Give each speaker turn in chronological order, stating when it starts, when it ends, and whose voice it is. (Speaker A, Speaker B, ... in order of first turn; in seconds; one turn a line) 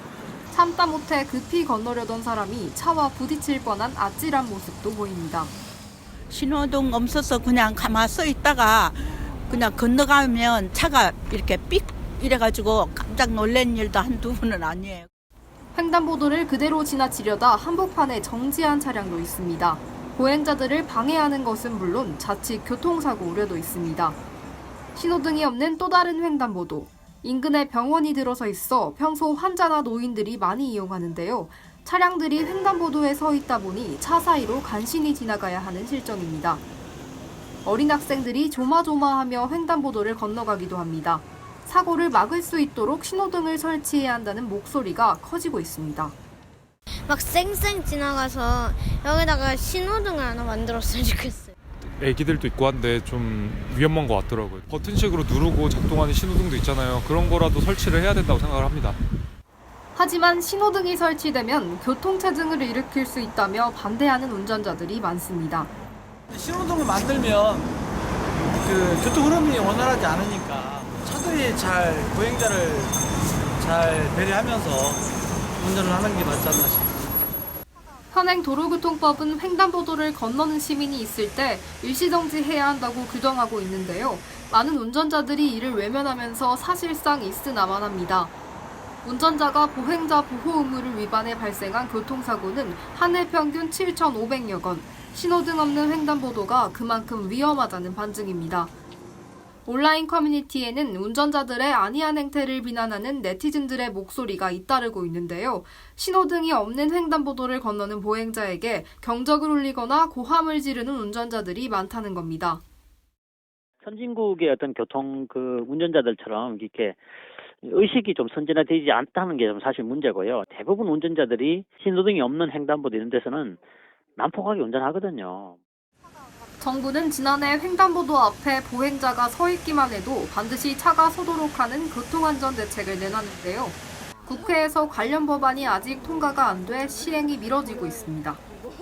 Speaker A: 0.5-5.5
Speaker B: 6.3-15.1
Speaker A: 15.7-24.2
Speaker A: 24.9-36.6
Speaker A: 37.6-46.1
Speaker C: 47.1-51.5
Speaker D: 52.0-59.0
Speaker A: 60.0-65.7
Speaker E: 66.3-67.7
Speaker E: 68.6-73.0
Speaker E: 73.6-75.0
Speaker E: 75.6-77.0
Speaker A: 78.1-88.3
Speaker A: 89.0-98.7
Speaker A: 99.7-112.6
Speaker F: 113.8-117.0
Speaker F: 117.6-123.6
Speaker F: 124.2-125.6
Speaker A: 126.6-138.4